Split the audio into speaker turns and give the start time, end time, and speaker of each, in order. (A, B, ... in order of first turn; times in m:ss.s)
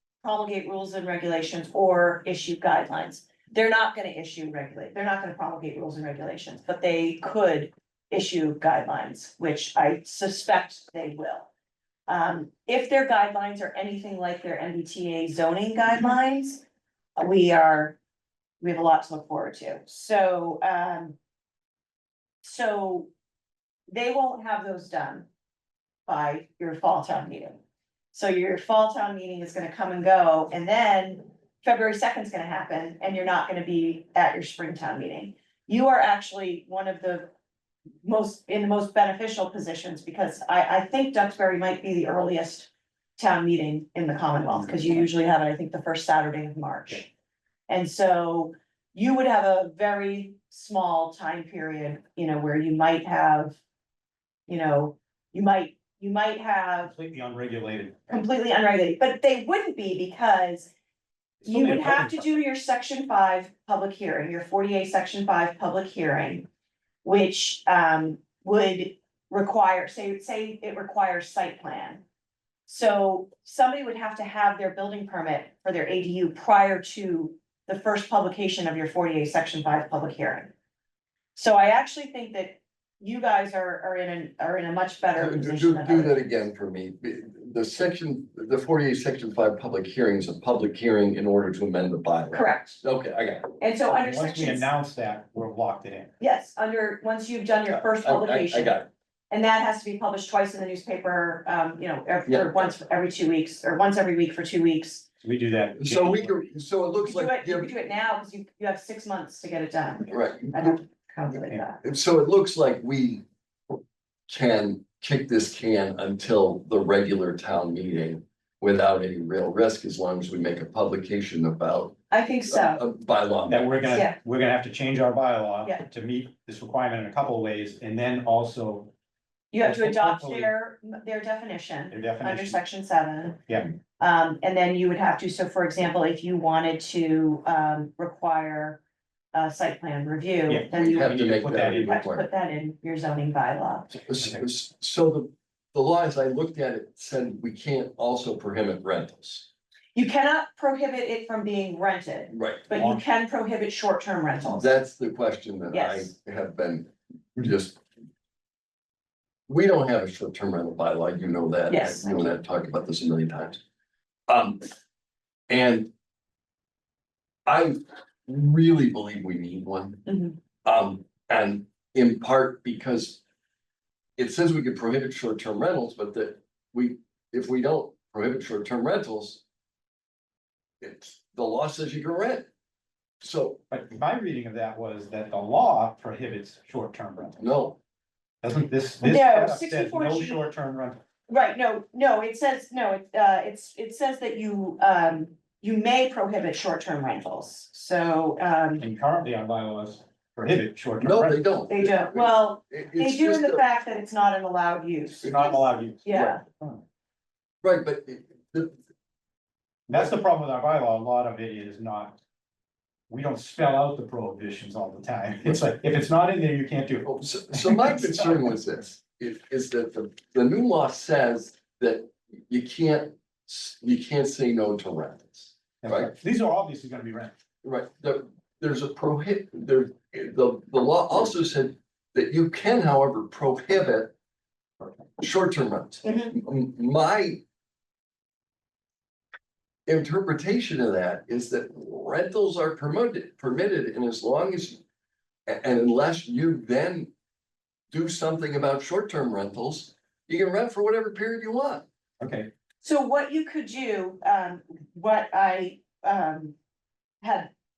0:00.2-0:11.5 A
0:12.1-0:16.6 A
0:17.2-0:18.0 A
0:18.6-0:21.2 A
0:22.4-0:23.1 A
0:23.9-0:25.3 A
0:26.0-0:27.6 A
0:28.1-0:37.3 A
0:38.0-0:47.1 A
0:44.5-0:45.0 B
0:47.7-0:53.6 A
0:54.5-0:56.9 A
0:56.9-0:58.1 B
0:58.1-1:00.7 A
1:01.4-1:02.3 B
1:01.4-1:06.4 A
1:07.0-1:12.0 A
1:12.7-1:20.5 A
1:21.3-1:26.2 A
1:25.2-1:33.5 C
1:32.3-1:32.8 A
1:33.6-1:34.7 A
1:33.9-1:36.1 B
1:36.2-1:38.8 A
1:37.7-1:38.9 C
1:39.3-1:45.0 A
1:42.3-1:42.7 C
1:45.2-1:46.4 B
1:45.8-1:47.7 C
1:47.0-1:51.8 A
1:50.1-1:50.8 C
1:51.8-1:53.2 C
1:54.3-2:02.0 C
2:02.1-2:02.8 A
2:02.5-2:03.8 C
2:03.5-2:08.9 B
2:03.9-2:04.2 A
2:09.5-2:13.4 A
2:09.6-2:10.5 B
2:11.9-2:12.6 B
2:14.0-2:18.8 A
2:19.3-2:21.2 A
2:20.5-2:22.0 B
2:20.7-2:22.3 C
2:21.8-2:24.0 A
2:24.1-2:29.5 C
2:29.9-2:34.7 A
2:32.3-2:32.7 C
2:32.8-2:33.0 B
2:34.6-2:37.8 C
2:35.7-2:36.1 A
2:39.5-2:43.6 C
2:41.7-2:42.2 A
2:44.3-2:44.7 C
2:45.5-2:45.9 C
2:47.4-2:50.0 C
2:50.0-2:50.4 A
2:50.6-2:53.2 C
2:54.2-2:59.4 C
3:00.8-3:02.5 C
3:03.2-3:03.6 C
3:03.7-3:07.4 B
3:07.4-3:07.8 C
3:08.4-3:11.0 B
3:09.0-3:10.5 A
3:11.3-3:18.8 A
3:18.8-3:21.4 B
3:21.0-3:23.6 C
3:21.7-3:26.4 A
3:25.2-3:26.8 B
3:25.2-3:25.5 C
3:26.1-3:26.4 C
3:27.6-3:28.8 C
3:29.9-3:32.2 B
3:33.1-3:38.4 B
3:37.0-3:46.1 C
3:45.8-3:47.3 B
3:47.6-3:54.1 C
3:55.2-3:57.4 C
3:56.0-3:56.3 A
3:59.8-4:04.8 C
4:05.5-4:07.1 C
4:07.9-4:11.8 C
4:12.2-4:12.5 B
4:12.8-4:16.5 A
4:17.2-4:17.5 A